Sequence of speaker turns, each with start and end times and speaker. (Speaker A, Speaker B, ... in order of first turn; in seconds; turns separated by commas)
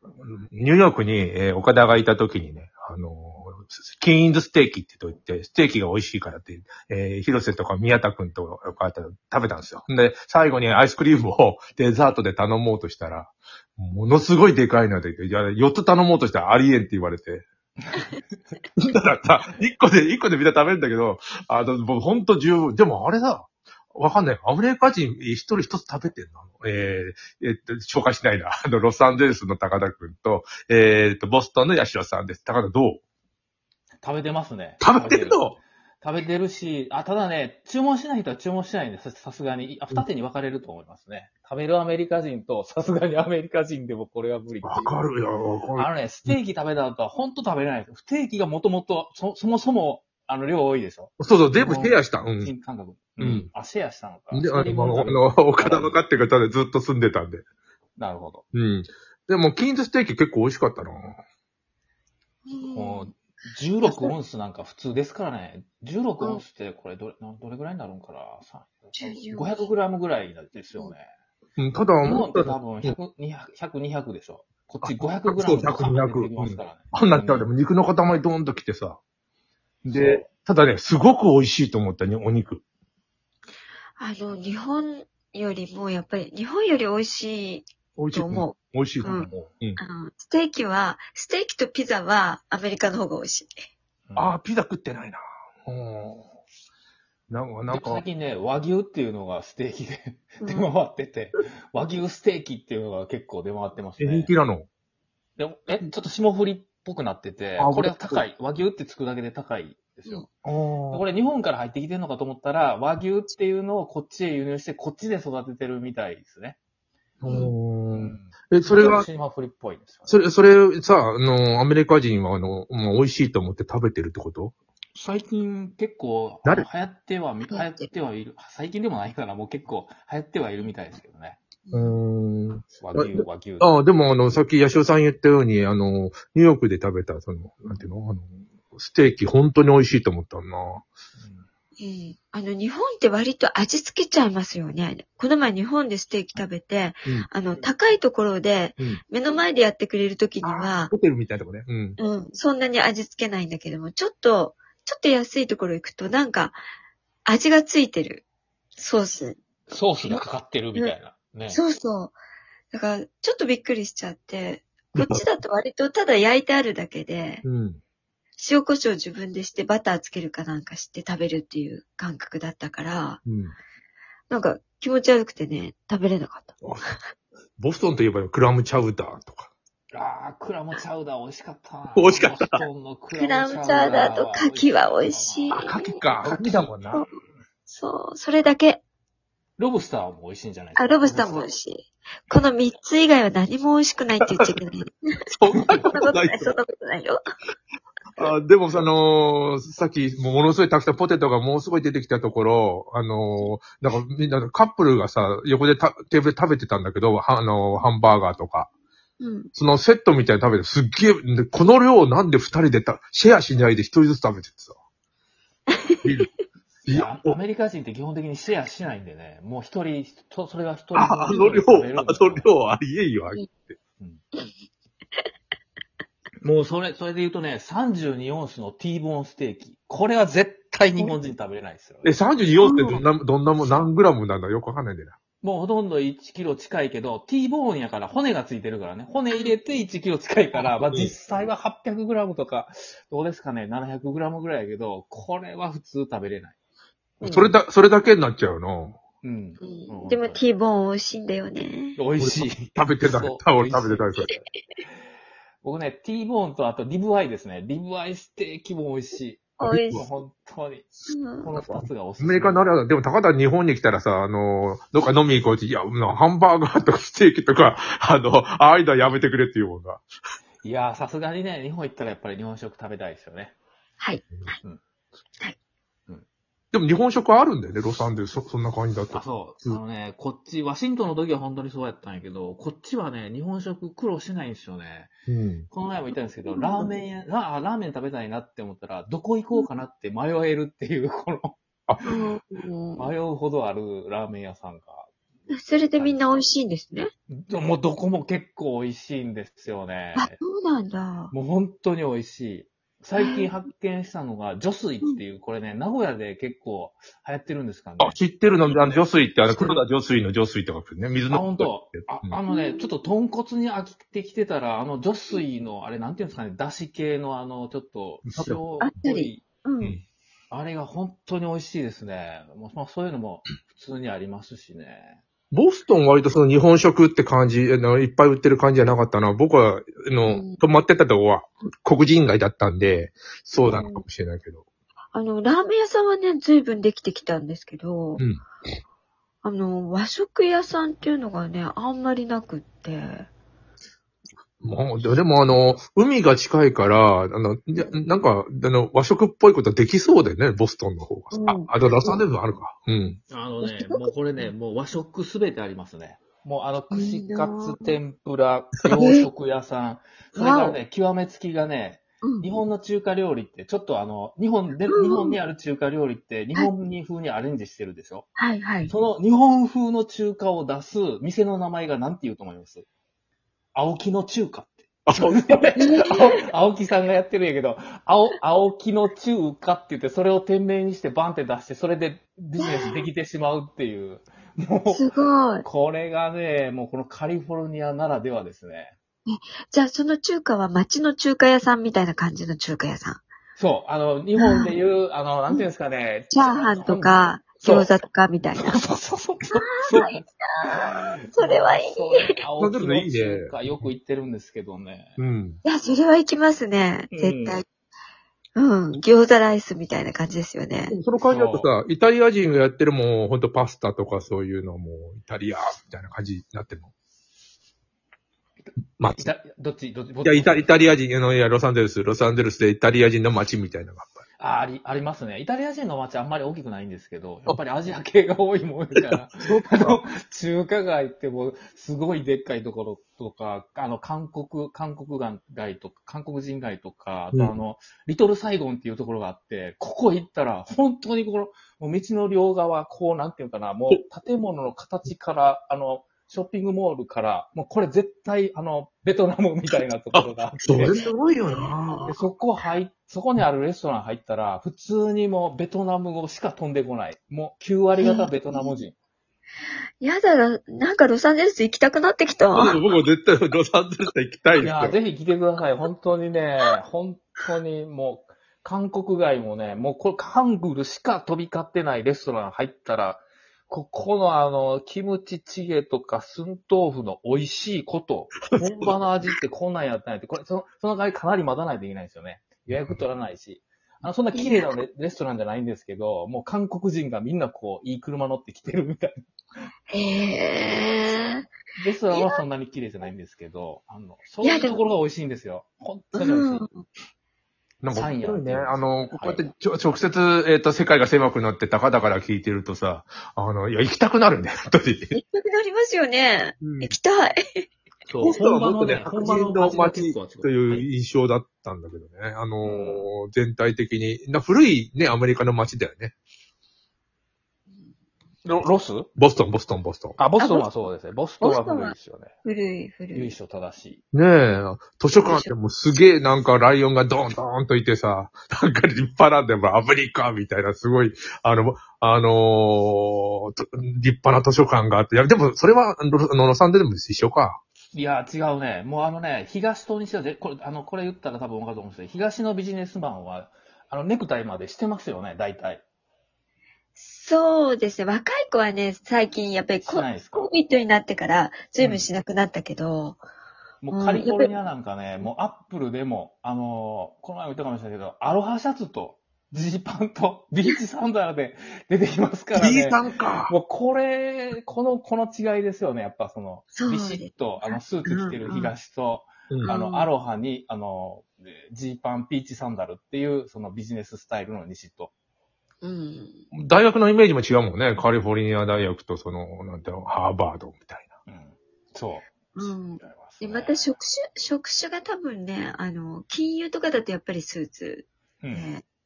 Speaker A: 0.2-17.4, Speaker B: 17.8-18.1, Speaker A: 18.8-33.0, Speaker B: 34.0-44.9, Speaker A: 34.8-35.6, Speaker A: 44.6-46.4, Speaker B: 45.8-56.0, Speaker A: 51.2-52.5, Speaker A: 53.2-53.5, Speaker A: 54.3-57.4, Speaker B: 58.0-58.4, Speaker A: 58.5-61.2, Speaker C: 62.5-63.1, Speaker B: 62.7-71.1, Speaker C: 63.8-64.2, Speaker C: 69.0-69.6, Speaker A: 71.6-73.0, Speaker B: 72.0-77.5, Speaker A: 74.8-79.0, Speaker B: 79.8-80.3, Speaker A: 79.9-82.6, Speaker C: 84.0-93.5, Speaker A: 88.0-89.8, Speaker B: 89.0-89.5, Speaker B: 94.1-94.4, Speaker A: 94.2-96.3, Speaker A: 97.3-98.0, Speaker B: 97.7-104.3, Speaker C: 100.4-100.7, Speaker A: 104.0-104.7, Speaker B: 105.4-110.3, Speaker A: 107.6-108.2, Speaker A: 110.5-111.0, Speaker B: 110.9-116.6, Speaker A: 117.2-119.1, Speaker C: 117.2-117.5, Speaker B: 118.0-120.2, Speaker A: 120.1-124.5, Speaker B: 125.0-131.4, Speaker C: 127.5-127.9, Speaker C: 131.7-132.0, Speaker A: 131.7-140.9, Speaker B: 132.8-133.7, Speaker B: 141.2-141.5, Speaker C: 141.8-150.9, Speaker A: 150.4-152.0, Speaker C: 152.0-156.6, Speaker C: 157.2-158.2, Speaker C: 158.8-159.4, Speaker B: 159.7-161.6, Speaker C: 160.1-160.9, Speaker C: 161.5-162.2, Speaker C: 162.7-167.4, Speaker A: 167.4-167.8, Speaker C: 168.4-173.2, Speaker A: 173.2-173.6, Speaker C: 174.3-176.6, Speaker A: 177.6-179.5, Speaker B: 179.9-186.7, Speaker A: 181.9-182.7, Speaker C: 183.1-186.0, Speaker A: 185.5-187.1, Speaker C: 187.7-188.8, Speaker B: 189.6-191.5, Speaker C: 190.8-195.1, Speaker A: 195.3-196.6, Speaker B: 195.5-195.9, Speaker C: 195.8-197.2, Speaker A: 198.2-208.7, Speaker C: 209.2-209.5, Speaker A: 209.6-214.8, Speaker C: 215.7-216.1, Speaker A: 216.0-216.3, Speaker A: 216.9-217.4, Speaker B: 216.9-222.5, Speaker A: 220.9-223.7, Speaker B: 226.4-233.1, Speaker A: 232.0-235.2, Speaker C: 232.6-233.0, Speaker B: 235.4-246.6, Speaker A: 240.6-241.1, Speaker C: 247.2-247.6, Speaker A: 247.2-249.0, Speaker B: 249.2-250.4, Speaker C: 249.6-252.0, Speaker B: 252.0-254.4, Speaker A: 252.2-254.3, Speaker B: 255.6-260.9, Speaker C: 259.6-260.0, Speaker A: 259.6-260.1, Speaker C: 261.1-261.6, Speaker B: 261.4-262.7, Speaker A: 261.6-270.0, Speaker B: 270.6-273.6, Speaker C: 274.0-274.5, Speaker A: 276.7-279.8, Speaker B: 279.1-285.1, Speaker A: 285.3-285.7, Speaker B: 285.7-292.2, Speaker C: 286.5-286.9, Speaker C: 292.0-293.1, Speaker B: 292.9-295.1, Speaker C: 295.5-297.1, Speaker B: 296.0-296.3, Speaker B: 297.3-300.4, Speaker C: 300.1-301.3, Speaker B: 301.3-308.2, Speaker C: 303.2-303.5, Speaker A: 308.0-312.3, Speaker B: 309.5-309.8, Speaker B: 311.3-319.4, Speaker C: 312.5-312.9, Speaker A: 318.2-318.6, Speaker C: 318.8-320.0, Speaker B: 320.5-325.2, Speaker A: 325.5-334.6, Speaker C: 330.2-330.6, Speaker C: 333.6-334.1, Speaker C: 335.1-338.2, Speaker A: 338.2-338.4, Speaker C: 339.4-343.3, Speaker A: 344.6-353.2, Speaker C: 351.3-352.2, Speaker B: 353.3-368.3, Speaker C: 353.6-354.4, Speaker C: 356.9-358.0, Speaker C: 358.9-359.3, Speaker C: 360.4-360.8, Speaker C: 362.2-362.5, Speaker C: 364.9-365.4, Speaker C: 368.4-368.9, Speaker B: 368.9-372.9, Speaker B: 373.8-385.1, Speaker A: 375.1-375.5, Speaker C: 375.8-376.4, Speaker C: 382.6-383.1, Speaker C: 384.9-385.6, Speaker B: 385.6-388.9, Speaker C: 389.2-393.2, Speaker B: 393.6-397.9, Speaker C: 394.4-394.7, Speaker C: 396.3-398.8, Speaker B: 398.6-405.2, Speaker C: 399.5-402.4, Speaker A: 402.6-403.9, Speaker A: 405.2-405.6, Speaker C: 405.6-407.6, Speaker B: 407.1-407.6, Speaker C: 408.6-410.9, Speaker A: 410.9-416.9, Speaker B: 411.2-411.7, Speaker A: 419.0-419.3, Speaker B: 419.2-420.9, Speaker A: 420.2-424.2, Speaker B: 424.4-451.0, Speaker A: 429.0-430.0, Speaker A: 450.1-452.1, Speaker C: 450.9-452.2, Speaker B: 452.1-458.9, Speaker C: 458.0-458.7, Speaker C: 460.0-462.8, Speaker A: 462.5-464.9, Speaker B: 464.6-489.2, Speaker C: 484.3-484.7, Speaker C: 489.9-491.5, Speaker B: 491.8-496.7, Speaker C: 492.1-492.4, Speaker C: 494.4-494.8, Speaker C: 496.1-496.8, Speaker A: 497.8-505.1, Speaker B: 497.9-499.5, Speaker C: 505.1-507.7, Speaker A: 506.6-506.9, Speaker B: 508.1-510.9, Speaker A: 508.2-516.1, Speaker B: 512.6-513.1, Speaker B: 518.4-519.1, Speaker A: 519.1-520.2, Speaker B: 520.2-522.3, Speaker C: 520.4-520.7, Speaker C: 521.4-523.3, Speaker B: 523.1-524.0, Speaker A: 524.1-537.6, Speaker C: 525.2-525.5, Speaker B: 537.9-545.8, Speaker C: 547.0-553.2, Speaker B: 549.8-550.5, Speaker B: 551.8-552.1, Speaker B: 553.8-575.1, Speaker C: 553.9-554.5, Speaker A: 562.5-563.5, Speaker C: 566.7-568.7, Speaker C: 569.6-570.1, Speaker C: 575.8-576.4, Speaker A: 576.5-581.1, Speaker B: 581.3-583.9, Speaker C: 582.5-588.8, Speaker B: 588.4-588.7